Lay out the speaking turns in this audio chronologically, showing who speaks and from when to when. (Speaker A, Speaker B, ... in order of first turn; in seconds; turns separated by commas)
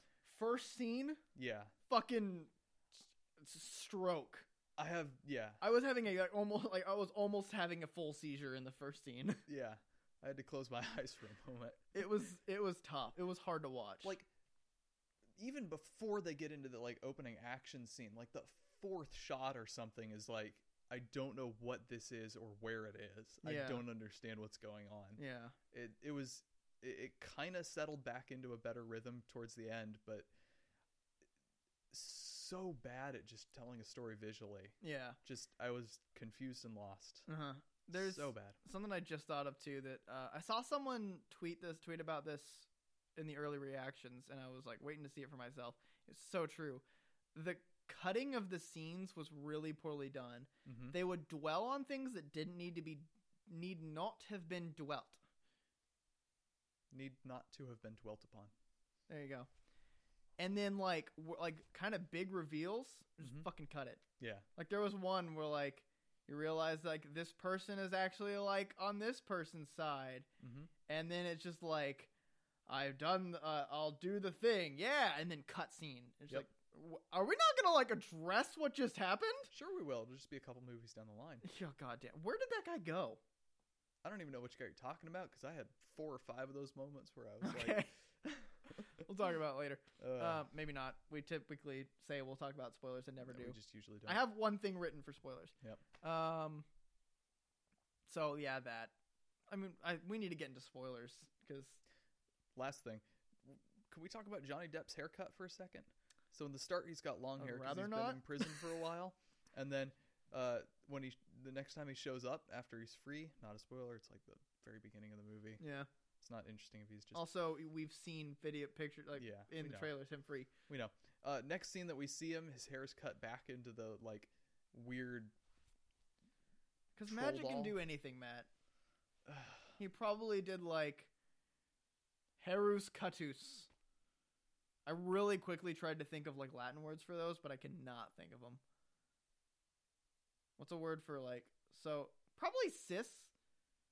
Speaker A: 0.2-1.2, Speaker B: 1.4-1.7, Speaker A: 1.9-4.5, Speaker B: 4.8-5.6, Speaker A: 5.6-9.4, Speaker B: 9.5-11.8, Speaker A: 11.9-14.2, Speaker B: 15.4-25.2, Speaker A: 23.4-23.8, Speaker A: 25.2-25.6, Speaker B: 25.7-30.3, Speaker B: 31.9-37.3, Speaker A: 34.8-35.2, Speaker A: 37.3-46.8, Speaker B: 37.9-38.6, Speaker A: 47.4-55.2, Speaker B: 50.7-51.0, Speaker B: 56.9-58.5, Speaker A: 59.1-59.5, Speaker A: 60.4-64.0, Speaker B: 64.2-64.5, Speaker A: 64.6-70.3, Speaker B: 70.4-70.7, Speaker A: 70.9-72.1, Speaker A: 72.7-79.5, Speaker B: 79.5-81.5, Speaker A: 81.4-83.2, Speaker B: 84.0-87.8, Speaker A: 87.4-96.7, Speaker B: 90.0-90.5, Speaker B: 93.2-94.2, Speaker A: 98.1-98.9, Speaker A: 99.5-101.8, Speaker B: 102.6-115.6, Speaker A: 107.4-108.7, Speaker A: 115.6-115.9, Speaker B: 116.2-117.2, Speaker A: 117.1-120.5, Speaker B: 119.2-119.9, Speaker B: 120.7-125.3, Speaker A: 127.0-128.5, Speaker B: 127.1-127.8, Speaker B: 129.3-129.8, Speaker A: 129.8-131.1, Speaker A: 132.4-133.7, Speaker A: 134.9-138.6, Speaker A: 140.6-143.3